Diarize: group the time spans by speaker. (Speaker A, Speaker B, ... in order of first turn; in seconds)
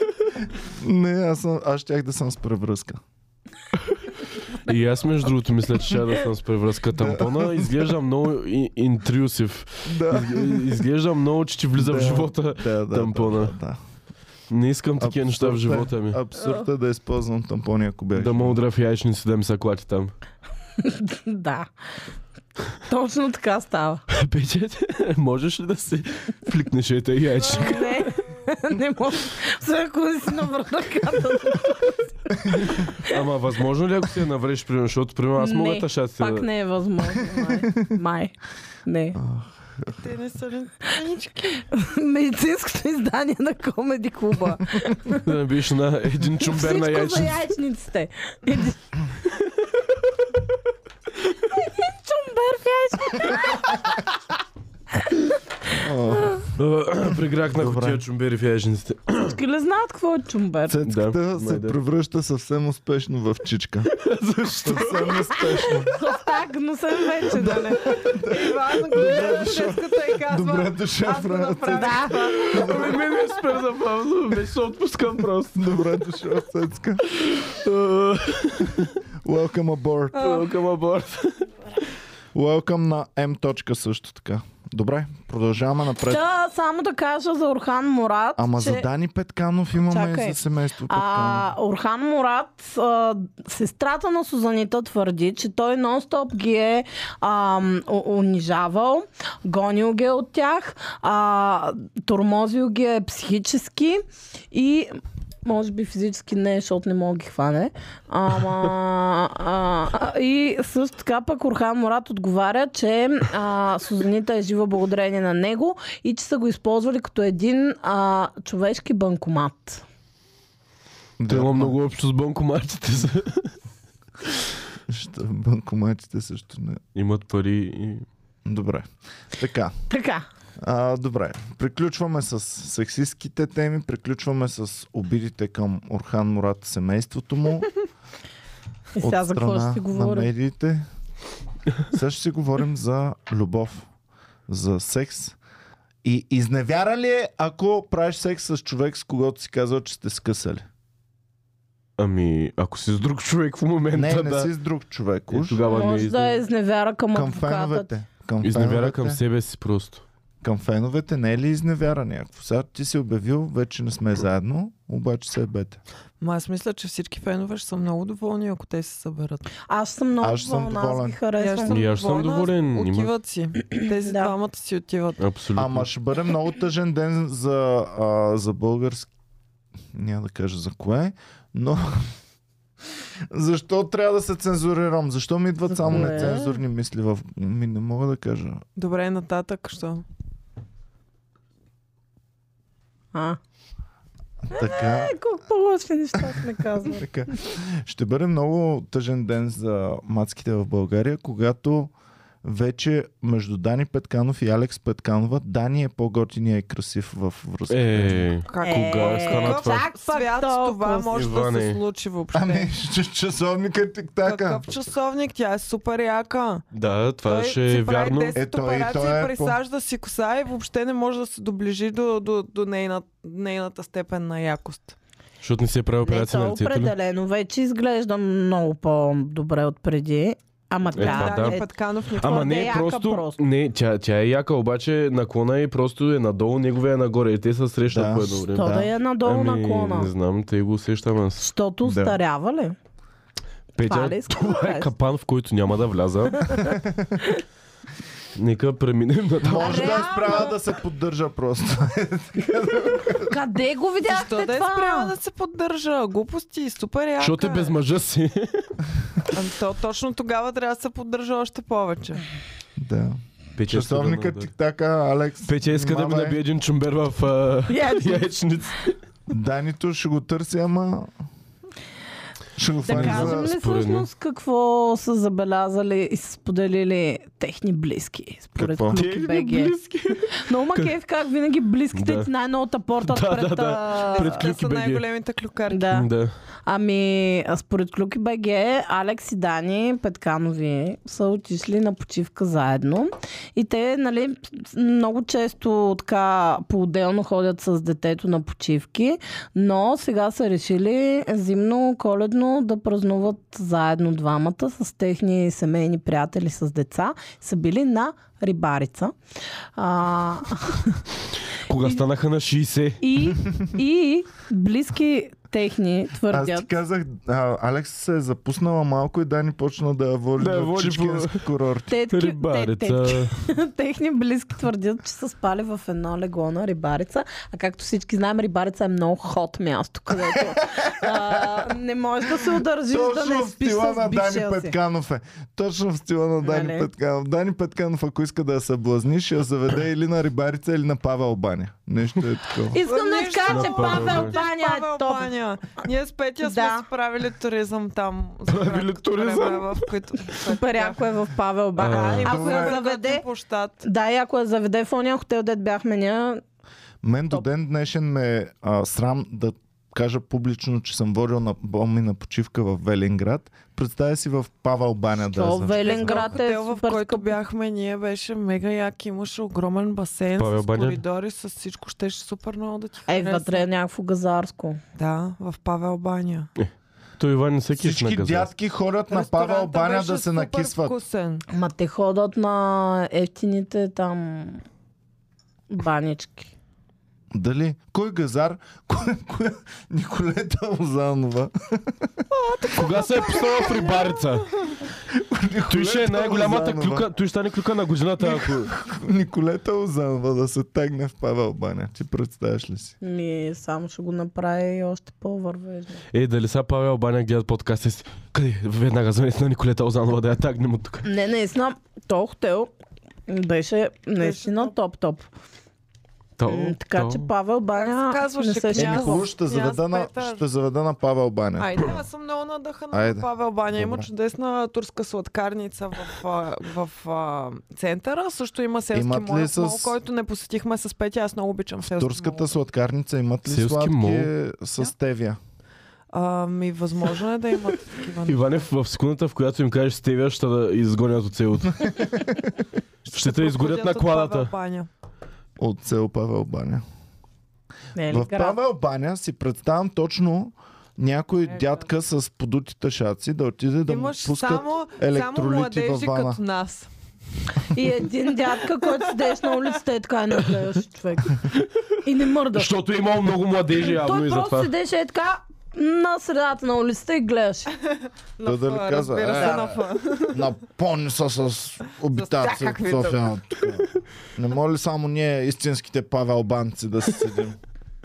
Speaker A: 0.5-3.0, 6.9-7.9, 9.8-10.8, 11.8-13.8, 15.0-18.6, 39.2-39.9, 55.7-56.5, 57.5-58.0, 60.7-63.9, 64.6-65.9, 67.3-73.0, 75.5-77.0, 78.8-80.4, 82.3-86.2, 88.4-91.5, 121.2-121.8, 124.9-126.8, 128.4-129.7, 130.6-137.7, 139.0-140.8, 141.9-143.9, 144.5-145.4, 146.0-150.6, 153.9-155.6, 157.1-159.2, 160.4-165.8, 170.2-171.2, 175.5-179.1, 179.9-182.1, 183.3-188.6, 194.5-195.1, 196.2-201.9, 202.4-208.3, 212.3-214.6, 218.3-219.6, 237.9-238.9, 246.8-247.2, 249.4-253.3, 262.8-266.4, 269.3-271.1, 272.6-273.5, 278.6-279.0, 316.3-321.9, 330.8-331.6, 332.9-342.8, 352.2-352.8, 357.0-366.3, 377.8-380.9, 387.3-391.9, 395.1-397.0, 398.2-402.9, 418.7-422.0, 422.9-424.1, 428.9-430.0, 431.8-435.4, 445.6-446.8, 448.1-456.4, 468.4-477.6
Speaker B: 4.6-13.5, 14.5-16.2, 18.1-20.1, 24.1-27.9, 32.7-36.5, 45.1-47.4, 56.6-59.4, 60.8-61.7, 63.9-65.7, 72.3-75.7, 77.1-78.9, 80.1-81.5, 121.3-123.5, 126.9-128.1, 152.0-154.5, 155.3-156.4, 158.4-160.0, 171.7-173.1, 175.2-175.9, 207.7-209.8, 211.1-211.8, 216.7-218.4, 225.4-226.9, 230.9-231.6, 232.2-242.1, 243.8-246.5, 248.3-250.1, 257.2-258.7, 263.6-264.5, 265.4-268.9, 272.9-274.1, 278.9-280.9, 281.9-282.3, 283.0-285.0, 285.9-286.3, 311.7-313.0, 320.4-321.4, 322.1-323.3, 343.4-344.4, 348.5-349.9, 351.8-352.3, 370.4-371.0, 376.6-378.5, 392.7-394.5, 395.7-398.7, 406.1-411.1, 416.4-417.2, 433.4-434.3, 438.2-442.3, 443.1-444.5, 462.5-464.7, 469.3-469.6
Speaker C: 16.4-16.6, 20.8-21.7, 22.9-24.0, 27.5-33.2, 35.4-39.2, 41.7-45.2, 46.4-48.9, 51.5-53.9, 59.2-60.8, 65.8-67.9, 71.7-72.5, 86.0-88.9, 89.9-119.8, 129.9-130.2, 138.9-140.3, 155.7-157.9, 169.7-171.8, 174.0-174.3, 185.7-186.6, 193.1-193.4, 194.5-197.1, 208.6-211.1, 226.0-231.7, 232.2-233.4, 238.5-240.1, 241.4-242.8, 243.8-244.9, 246.5-246.7, 249.5-250.6, 253.3-255.1, 267.7-268.3, 272.8-284.3, 285.7-286.1, 286.6-309.1, 309.8-311.0, 313.0-316.7, 321.9-334.7, 336.4-336.9, 342.7-345.3, 346.4-346.8, 350.4-353.2, 353.8-356.4, 365.2-367.3, 373.1-374.8, 381.5-384.6, 385.7-386.5, 403.0-406.0, 411.0-412.7, 413.3-415.3, 416.4-419.2, 447.9-448.6, 457.7-461.5, 462.0-462.7, 463.8-467.7
Speaker D: 27.5-28.3, 39.9-41.6, 68.1-73.1, 166.2-169.5, 171.4-175.2, 188.8-190.0, 208.5-212.7, 214.2-216.6, 217.2-224.9, 230.9-232.8, 254.1-257.8, 259.3-262.2, 284.1-285.9, 342.8-351.0, 351.8-353.8, 365.7-373.6, 374.9-376.5, 379.1-381.4, 392.3-394.7, 414.2-414.7, 417.8-420.4, 421.6-432.5, 436.1-438.4, 443.0-444.9, 451.5-451.9, 453.9-456.9, 459.1-459.6, 468.4-470.4, 472.1-473.3